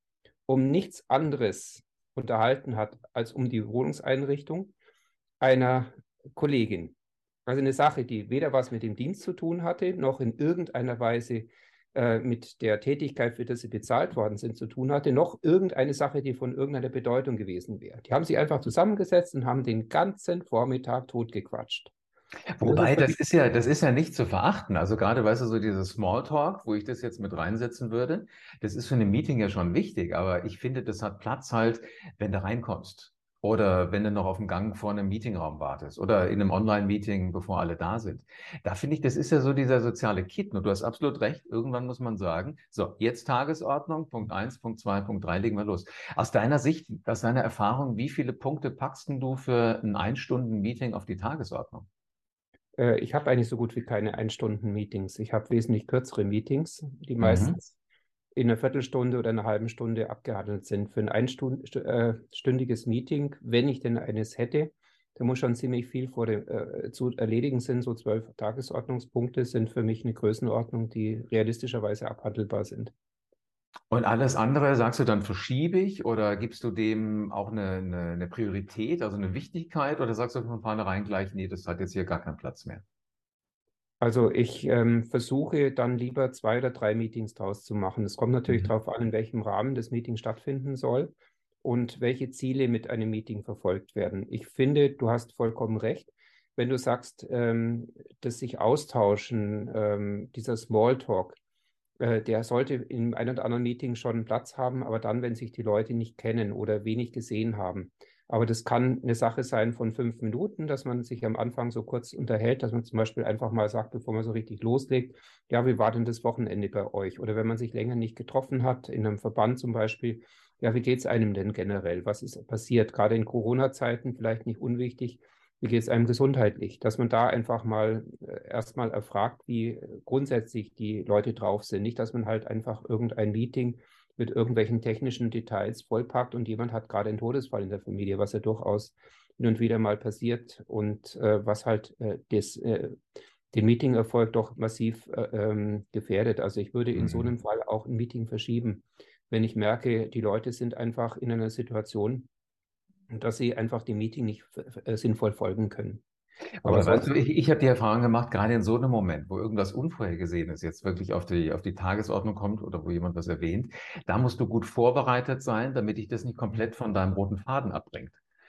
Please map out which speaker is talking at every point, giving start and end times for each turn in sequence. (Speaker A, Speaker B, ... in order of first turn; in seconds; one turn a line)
Speaker A: 0.5-4.7
Speaker A: 5.4-7.0
Speaker A: 7.5-21.9
Speaker B: 22.5-51.9
Speaker A: 22.6-23.1
Speaker A: 52.8-57.8
Speaker B: 57.2-57.6
Speaker A: 58.4-72.9
Speaker B: 73.9-82.8
Speaker A: 84.0-91.1
Speaker A: 91.6-101.4
Speaker A: 102.0-143.0
Speaker A: 143.5-152.3
Speaker B: 147.0-147.3
Speaker A: 153.1-156.0
Speaker B: 156.6-168.2
Speaker A: 156.6-157.1